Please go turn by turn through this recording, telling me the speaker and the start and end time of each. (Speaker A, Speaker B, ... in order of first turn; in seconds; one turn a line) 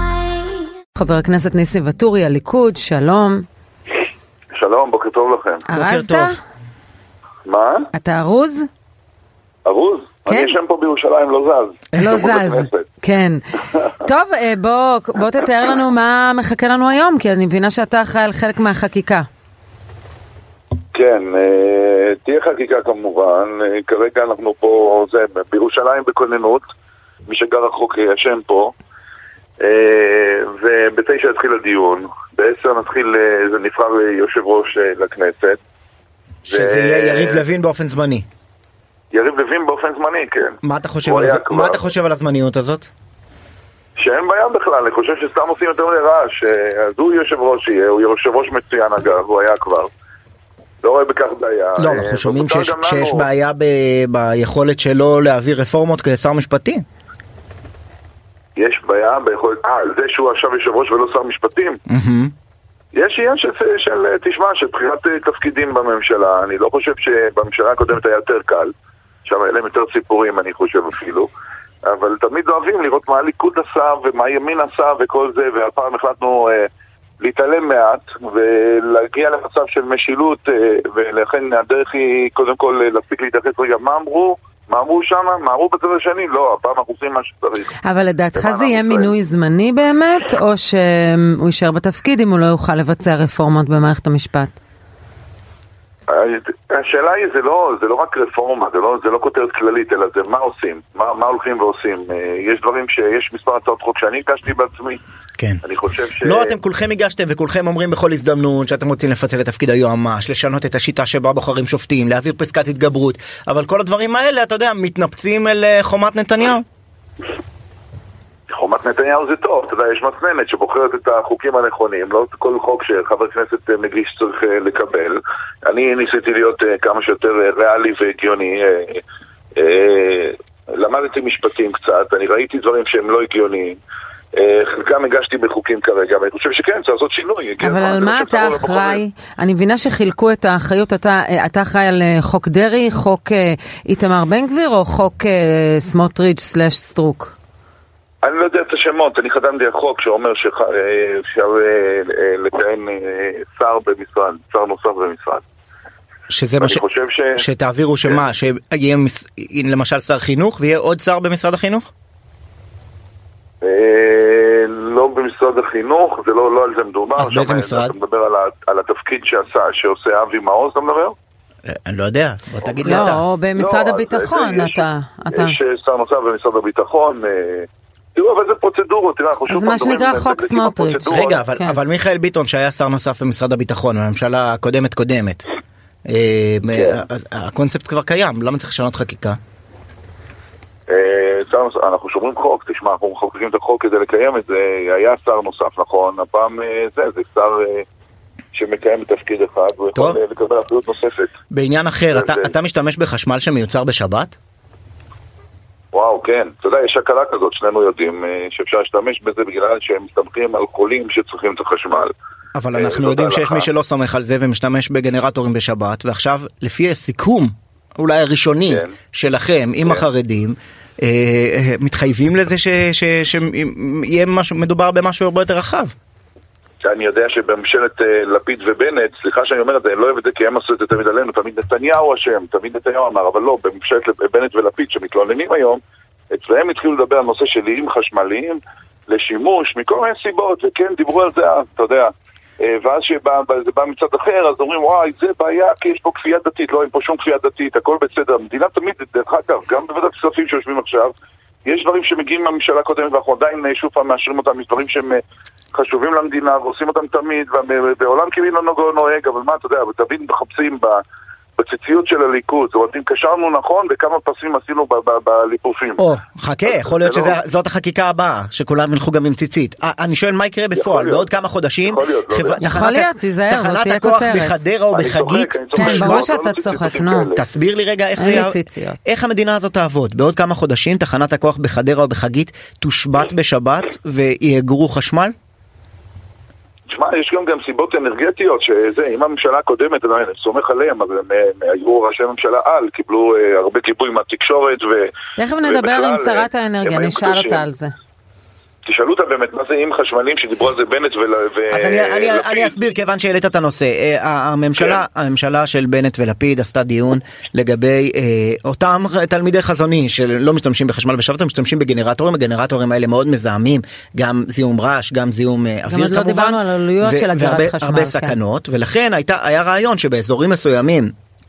Speaker A: 0.9-3.4
Speaker B: 4.5-5.7
Speaker A: 5.7-6.4
Speaker C: 5.7-6.3
Speaker B: 7.4-7.9
Speaker A: 7.9-8.7
Speaker B: 9.6-12.8
Speaker A: 10.3-10.5
Speaker A: 12.0-13.4
Speaker A: 14.0-19.2
Speaker B: 20.9-26.6
Speaker B: 27.3-28.7
Speaker B: 29.6-35.6
Speaker C: 36.5-38.2
Speaker B: 36.5-37.4
Speaker B: 39.1-41.8
Speaker C: 40.6-42.9
Speaker B: 44.0-49.9
Speaker B: 50.8-53.3
Speaker C: 51.8-56.8
Speaker B: 58.6-61.8
Speaker C: 61.9-62.3
Speaker B: 62.9-68.7
Speaker B: 69.2-71.3
Speaker B: 71.8-76.7
Speaker B: 77.2-87.7
Speaker A: 87.8-94.5
Speaker B: 88.3-89.1
Speaker B: 96.1-105.0
Speaker B: 105.6-106.6
Speaker C: 106.2-116.6
Speaker B: 118.5-129.0
Speaker B: 129.6-133.8
Speaker B: 134.3-139.0
Speaker A: 137.6-147.3
Speaker B: 148.2-155.4
Speaker C: 156.3-156.8
Speaker B: 156.6-157.4
Speaker C: 157.4-161.9
Speaker B: 163.6-171.1
Speaker C: 167.2-167.9
Speaker C: 171.7-173.2
Speaker B: 172.7-181.4
Speaker A: 172.8-175.5
Speaker A: 179.5-181.8
Speaker C: 181.1-185.4
Speaker C: 186.1-189.4
Speaker B: 186.7-187.0
Speaker B: 190.9-197.8
Speaker B: 198.5-201.3
Speaker C: 201.5-204.3
Speaker B: 202.1-202.5
Speaker B: 205.9-212.1
Speaker C: 212.6-225.9
Speaker B: 212.7-213.7
Speaker B: 218.7-219.0
Speaker B: 226.8-235.8
Speaker B: 236.3-251.1
Speaker B: 251.7-255.2
Speaker B: 255.7-261.0
Speaker B: 261.6-266.0
Speaker C: 266.0-276.3
Speaker B: 266.6-267.4
Speaker B: 270.7-271.3
Speaker B: 271.8-272.6
Speaker A: 272.6-274.6
Speaker B: 274.9-277.4
Speaker A: 275.8-277.3
Speaker C: 277.3-285.3
Speaker A: 278.2-279.0
Speaker B: 286.9-297.7
Speaker A: 295.4-297.9
Speaker B: 298.8-302.8
Speaker C: 301.7-321.1
Speaker B: 304.8-305.0
Speaker A: 315.9-318.4